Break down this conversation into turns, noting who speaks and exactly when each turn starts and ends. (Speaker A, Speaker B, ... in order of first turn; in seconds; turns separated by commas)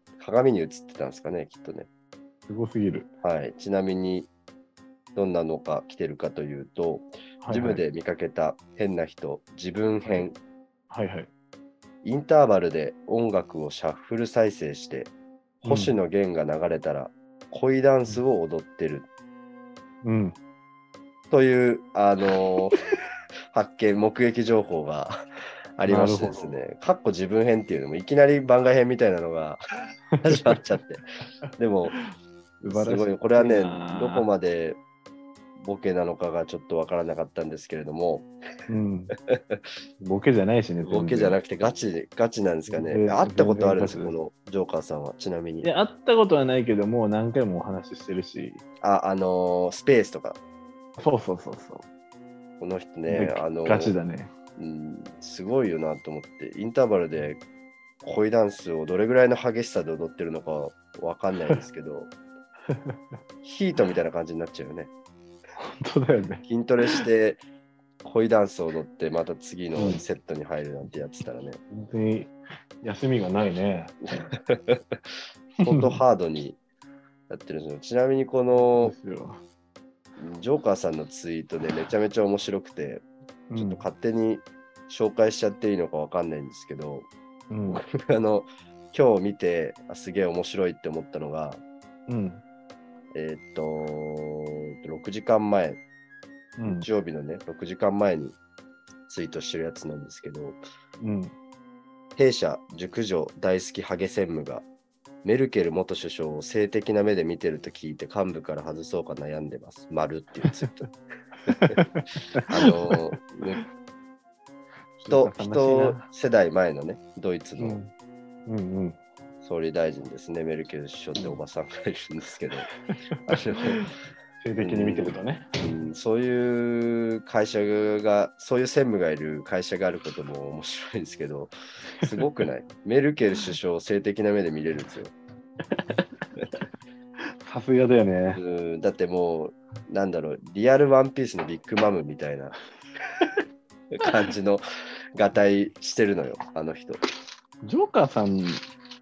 Speaker A: 0.2-1.9, Speaker B: 2.5-3.1, Speaker A: 3.2-4.3, Speaker A: 5.1-10.4, Speaker B: 7.4-7.8, Speaker B: 10.9-11.3, Speaker A: 12.0-19.1, Speaker B: 15.6-15.9, Speaker B: 20.0-20.4, Speaker A: 21.3-22.8, Speaker A: 23.5-25.1, Speaker A: 25.8-29.6, Speaker B: 25.9-26.6, Speaker B: 30.1-30.6, Speaker A: 30.2-31.0, Speaker A: 31.6-32.0, Speaker B: 31.9-34.3, Speaker A: 32.6-34.8, Speaker A: 35.6-38.3, Speaker B: 38.7-39.1, Speaker A: 39.2-39.6, Speaker B: 40.0-41.4, Speaker A: 40.8-45.7, Speaker B: 42.7-44.1, Speaker B: 45.6-48.6, Speaker A: 48.8-50.4, Speaker B: 51.0-51.8, Speaker A: 52.6-53.9, Speaker B: 53.1-54.3, Speaker A: 54.5-57.4, Speaker A: 58.0-62.1, Speaker B: 62.7-63.0, Speaker A: 63.4-64.9, Speaker B: 65.6-67.0, Speaker A: 66.4-67.4, Speaker A: 68.0-71.6, Speaker B: 69.8-70.0, Speaker B: 71.7-74.1, Speaker A: 74.3-75.0, Speaker A: 75.6-76.6, Speaker B: 75.6-76.0, Speaker A: 77.3-78.9, Speaker B: 78.6-79.4, Speaker A: 80.2-83.0, Speaker B: 83.5-83.8, Speaker A: 83.5-87.1, Speaker B: 87.5-87.8, Speaker A: 87.7-91.6, Speaker B: 92.1-92.4, Speaker A: 93.1-95.8, Speaker B: 96.6-96.9, Speaker A: 96.6-98.3, Speaker A: 99.1-100.6, Speaker B: 101.0-101.3, Speaker A: 102.2-104.6, Speaker A: 105.2-110.9, Speaker A: 111.5-111.8, Speaker B: 111.5-113.0, Speaker A: 112.5-113.6, Speaker B: 115.0-116.0, Speaker A: 115.1-117.8, Speaker B: 117.6-117.9, Speaker B: 118.5-119.0, Speaker A: 119.4-122.7, Speaker B: 122.9-125.5, Speaker A: 123.2-123.8, Speaker A: 124.6-135.1, Speaker B: 135.7-136.1, Speaker B: 137.4-138.4, Speaker A: 138.3-142.5, Speaker A: 143.9-144.6, Speaker A: 145.1-147.0, Speaker B: 147.6-148.6